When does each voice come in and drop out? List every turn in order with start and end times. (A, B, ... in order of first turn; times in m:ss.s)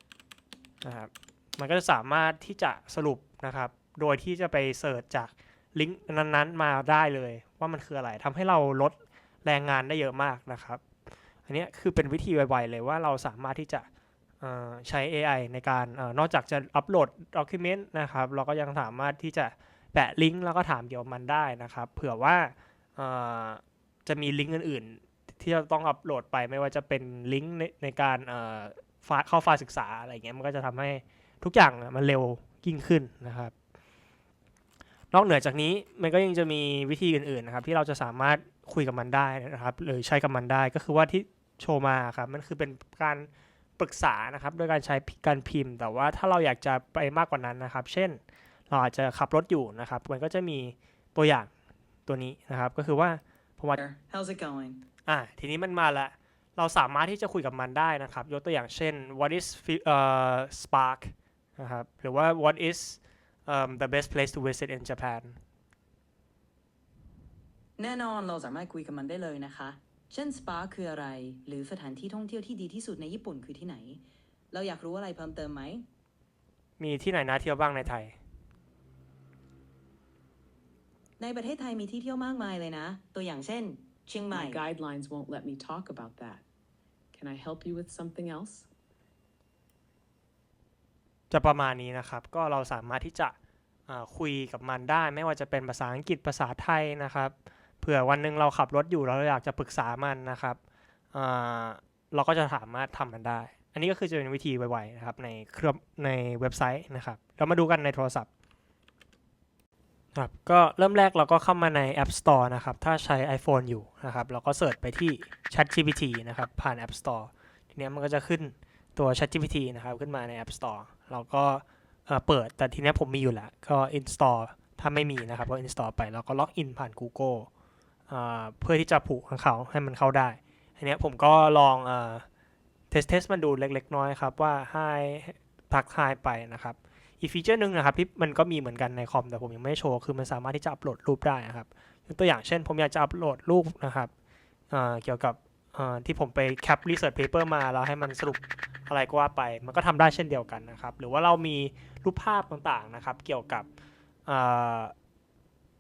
0:00.8-0:10.8 A
0:11.5-0:13.9 A
0:14.4-0:33.5 A
0:35.1-0:51.5 A
0:52.1-0:53.8 A
0:53.8-0:54.8 B
0:55.1-1:05.4 A
1:07.8-1:15.8 B
1:16.8-1:18.2 A
1:21.2-1:24.6 B
1:24.3-1:26.4 C
1:27.1-1:28.7 C
1:31.3-1:33.4 A
1:33.9-1:40.6 A
1:41.1-1:48.3 A
1:50.2-2:07.5 A
2:08.1-2:12.2 A
2:12.9-2:24.1 A
2:24.7-2:33.7 A
2:34.3-2:34.9 A